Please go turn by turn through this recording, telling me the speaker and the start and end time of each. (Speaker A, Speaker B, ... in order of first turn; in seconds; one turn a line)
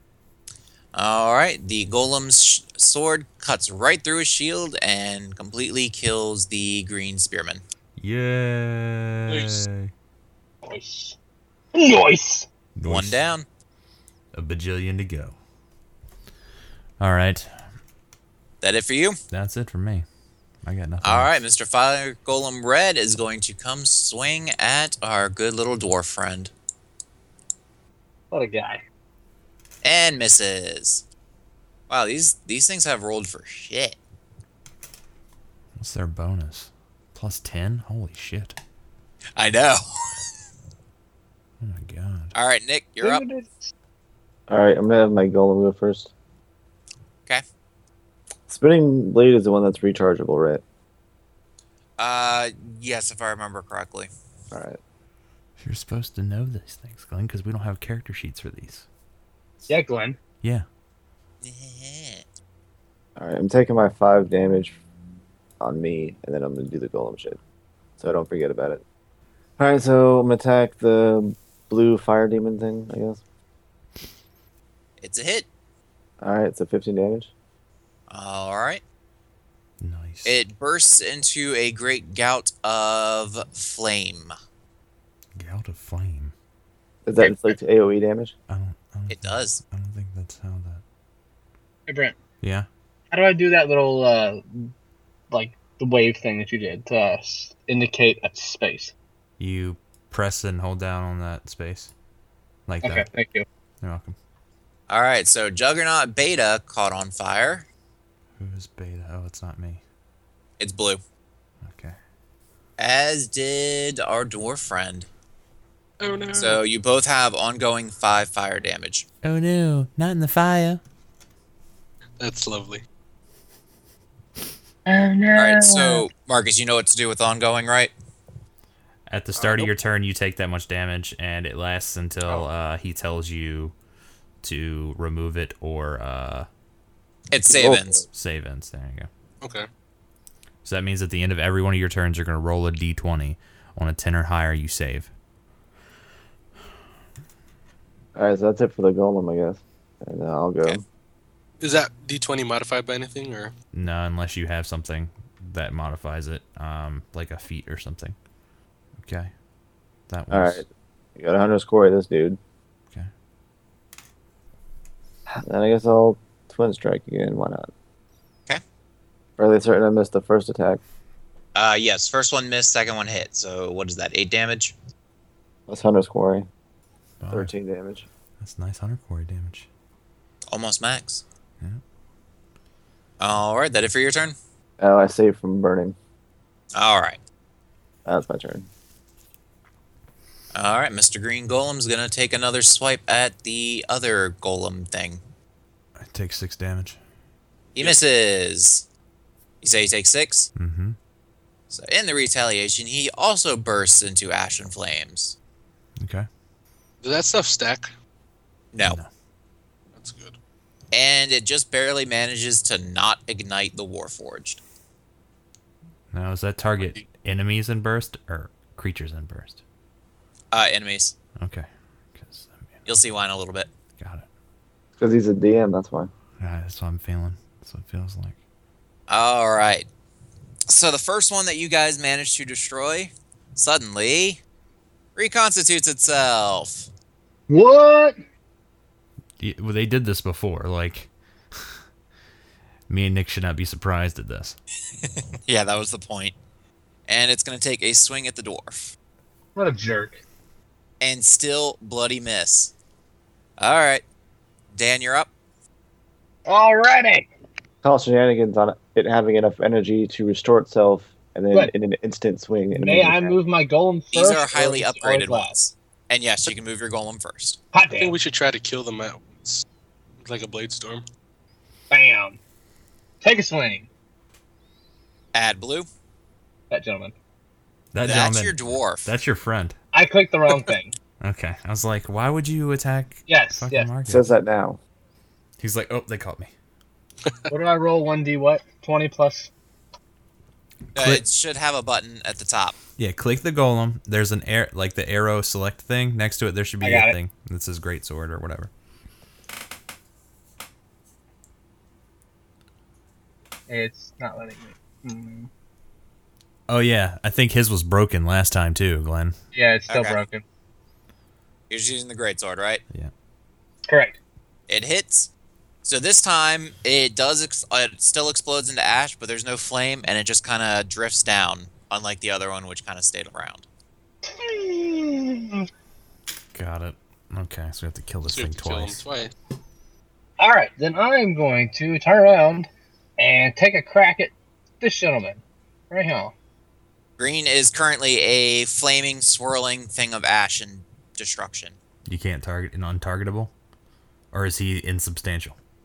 Speaker A: 0.9-7.6
Speaker B: 8.0-9.9
Speaker C: 9.3-9.6
Speaker D: 10.6-11.2
Speaker D: 11.7-12.5
Speaker B: 12.8-13.2
Speaker A: 12.8-13.4
Speaker B: 14.3-15.3
Speaker B: 17.0-17.6
Speaker A: 18.6-19.2
Speaker B: 19.3-20.0
Speaker B: 20.6-21.3
Speaker A: 21.0-26.5
Speaker D: 28.3-28.8
Speaker A: 29.8-31.0
Speaker A: 31.9-34.0
Speaker B: 35.8-38.6
Speaker A: 39.4-40.3
Speaker B: 41.6-42.3
Speaker A: 42.3-43.2
Speaker D: 43.0-43.7
Speaker E: 44.5-46.1
Speaker E: 48.5-50.6
Speaker A: 52.0-54.1
Speaker E: 54.5-54.8
Speaker B: 55.6-58.9
Speaker D: 59.7-60.2
Speaker A: 61.4-62.3
Speaker E: 63.2-64.8
Speaker E: 65.6-67.4
Speaker E: 68.0-68.8
Speaker E: 69.6-73.2
Speaker A: 75.0-75.5
Speaker E: 76.2-77.3
Speaker A: 78.1-78.8
Speaker B: 79.8-80.3
Speaker A: 80.2-84.3
Speaker B: 85.3-86.3
Speaker E: 87.0-88.3
Speaker A: 87.2-87.5
Speaker B: 88.5-90.8
Speaker A: 89.1-89.6
Speaker D: 91.9-92.2
Speaker B: 92.4-92.7
Speaker D: 93.1-94.7
Speaker D: 95.3-98.9
Speaker B: 99.4-101.9
Speaker B: 102.7-103.0
Speaker D: 102.8-103.5
Speaker B: 103.8-104.2
Speaker A: 104.9-107.7
Speaker B: 108.4-109.8
Speaker A: 110.6-111.0
Speaker B: 111.6-112.0
Speaker A: 112.8-115.1
Speaker C: 116.0-116.6
Speaker A: 116.3-119.1
Speaker B: 119.2-120.8
Speaker C: 122.2-122.8
Speaker D: 124.8-126.1
Speaker A: 125.3-127.9
Speaker B: 129.1-133.7
Speaker B: 134.4-136.5
Speaker A: 137.3-138.0
Speaker E: 137.5-138.0
Speaker B: 138.1-139.1
Speaker B: 140.6-145.1
Speaker E: 148.1-150.8
Speaker C: 151.6-153.5
Speaker B: 153.7-158.2
Speaker B: 159.0-159.3
Speaker B: 160.1-160.6
Speaker E: 160.3-162.4
Speaker E: 165.3-167.7
Speaker E: 169.4-170.8
Speaker A: 171.5-174.7
Speaker E: 175.7-176.4
Speaker B: 177.2-177.5
Speaker E: 177.3-178.1
Speaker B: 178.4-179.7
Speaker A: 180.5-181.2
Speaker A: 183.2-184.3
Speaker E: 184.8-185.9
Speaker A: 186.7-187.2
Speaker E: 188.0-188.7
Speaker A: 190.5-195.2
Speaker B: 196.0-197.0
Speaker A: 197.7-198.8
Speaker A: 199.6-200.5
Speaker B: 200.6-201.0
Speaker A: 201.7-205.3
Speaker B: 206.0-206.3
Speaker C: 207.0-207.9
Speaker A: 208.7-209.0
Speaker B: 208.8-209.1
Speaker C: 209.9-210.4
Speaker A: 210.9-214.6
Speaker B: 216.1-219.6
Speaker C: 216.8-217.1
Speaker A: 220.5-221.2
Speaker B: 221.4-222.7
Speaker A: 222.8-223.7
Speaker B: 224.0-224.2
Speaker E: 225.0-226.1
Speaker B: 226.4-228.4
Speaker A: 229.1-229.9
Speaker A: 230.7-234.4
Speaker A: 235.2-236.9
Speaker D: 237.5-238.2
Speaker B: 239.4-241.7
Speaker B: 242.9-244.6
Speaker A: 245.1-246.3
Speaker A: 247.1-248.9
Speaker D: 249.5-250.2
Speaker A: 251.0-252.7
Speaker A: 253.6-254.0
Speaker A: 254.7-255.3
Speaker D: 256.4-257.3
Speaker E: 257.8-263.4
Speaker D: 262.7-265.5
Speaker A: 264.1-267.6
Speaker D: 267.7-268.1
Speaker C: 267.9-269.6
Speaker C: 270.2-271.1
Speaker D: 271.9-272.4
Speaker D: 273.2-273.9
Speaker A: 275.3-275.9
Speaker D: 276.7-277.1
Speaker B: 277.9-279.8
Speaker A: 278.0-279.1
Speaker D: 279.9-280.9
Speaker B: 281.2-284.3
Speaker D: 283.3-283.9
Speaker E: 284.1-284.8
Speaker B: 285.6-286.5
Speaker D: 287.5-289.5
Speaker A: 290.9-292.8
Speaker B: 291.0-291.2
Speaker B: 293.0-298.7
Speaker D: 296.8-297.2
Speaker D: 303.7-305.5
Speaker B: 306.7-309.4
Speaker D: 309.5-310.4
Speaker A: 309.9-310.2
Speaker A: 311.7-312.8
Speaker D: 313.9-314.2
Speaker A: 314.7-315.3
Speaker A: 315.8-323.6
Speaker D: 324.2-325.6
Speaker B: 326.5-329.0
Speaker C: 328.3-329.3
Speaker D: 330.4-336.3
Speaker A: 337.2-341.8
Speaker B: 342.1-343.5
Speaker B: 344.3-345.6